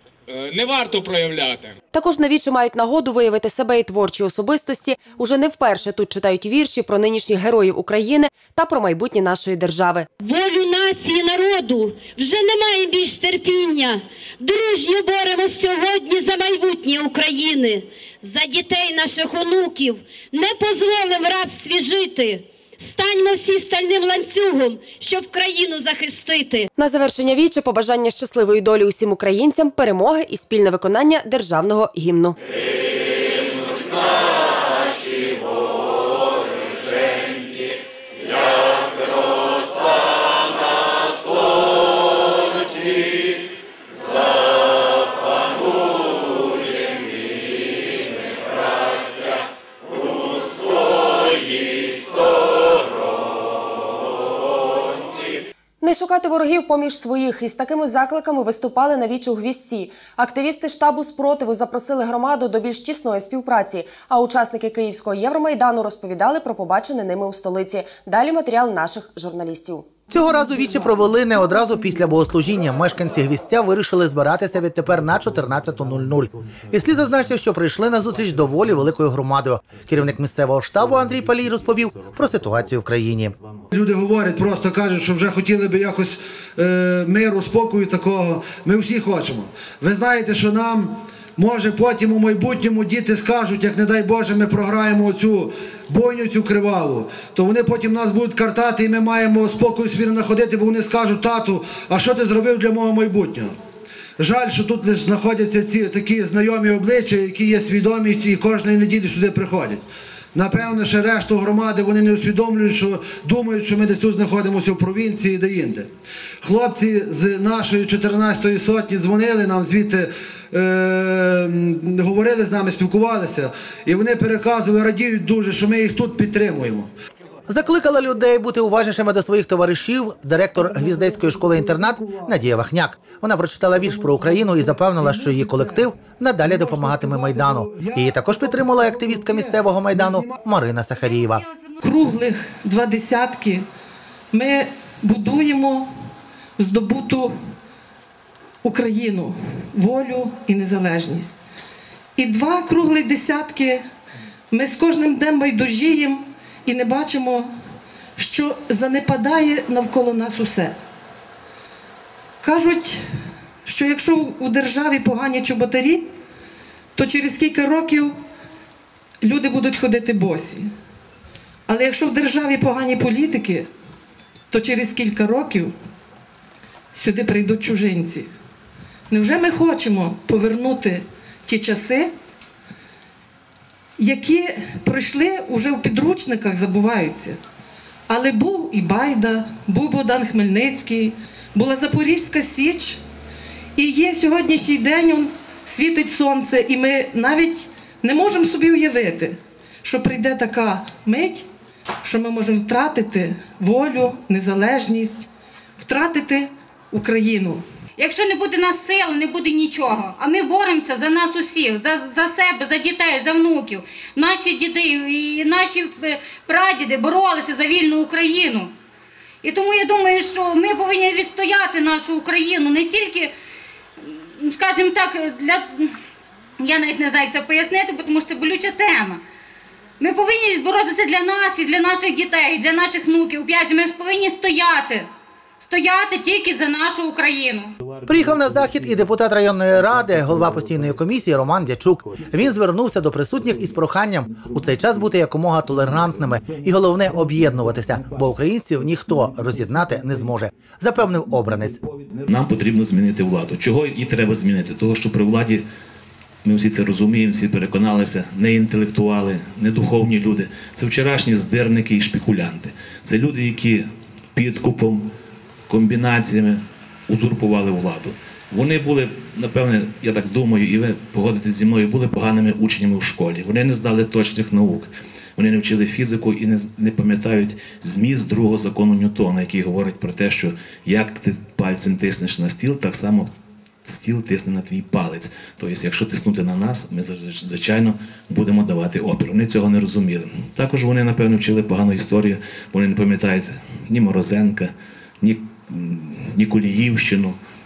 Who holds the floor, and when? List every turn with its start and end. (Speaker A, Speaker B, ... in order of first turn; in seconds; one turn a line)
Speaker A: 0.3-1.7
Speaker B: 1.9-10.1
Speaker C: 10.2-26.6
Speaker B: 26.8-32.4
Speaker B: 55.8-69.9
Speaker D: 70.1-83.3
Speaker E: 83.7-103.5
Speaker E: 104.2-109.8
Speaker E: 110.3-115.9
Speaker E: 116.4-126.9
Speaker D: 127.5-141.4
Speaker E: 131.0-132.3
Speaker E: 136.5-138.9
Speaker A: 141.1-141.8
Speaker F: 141.8-143.6
Speaker F: 144.3-145.9
Speaker F: 146.6-147.3
Speaker F: 148.6-151.4
Speaker F: 152.2-153.8
Speaker F: 154.5-157.5
Speaker F: 158.2-160.8
Speaker F: 162.4-163.0
Speaker F: 163.6-166.1
Speaker F: 166.9-168.2
Speaker F: 169.2-170.7
Speaker F: 171.7-173.7
Speaker F: 174.5-175.7
Speaker F: 176.9-178.3
Speaker F: 179.1-182.1
Speaker F: 184.0-187.4
Speaker F: 188.1-193.0
Speaker F: 193.8-201.5
Speaker F: 202.0-205.3
Speaker F: 205.8-207.6
Speaker A: 208.0-218.7
Speaker A: 219.4-223.3
Speaker A: 224.0-225.9
Speaker A: 226.6-229.2
Speaker A: 230.0-235.1
Speaker A: 235.6-237.7
Speaker D: 238.1-251.8
Speaker G: 252.2-255.6
Speaker G: 256.4-265.1
Speaker G: 265.7-283.3
Speaker G: 283.8-297.4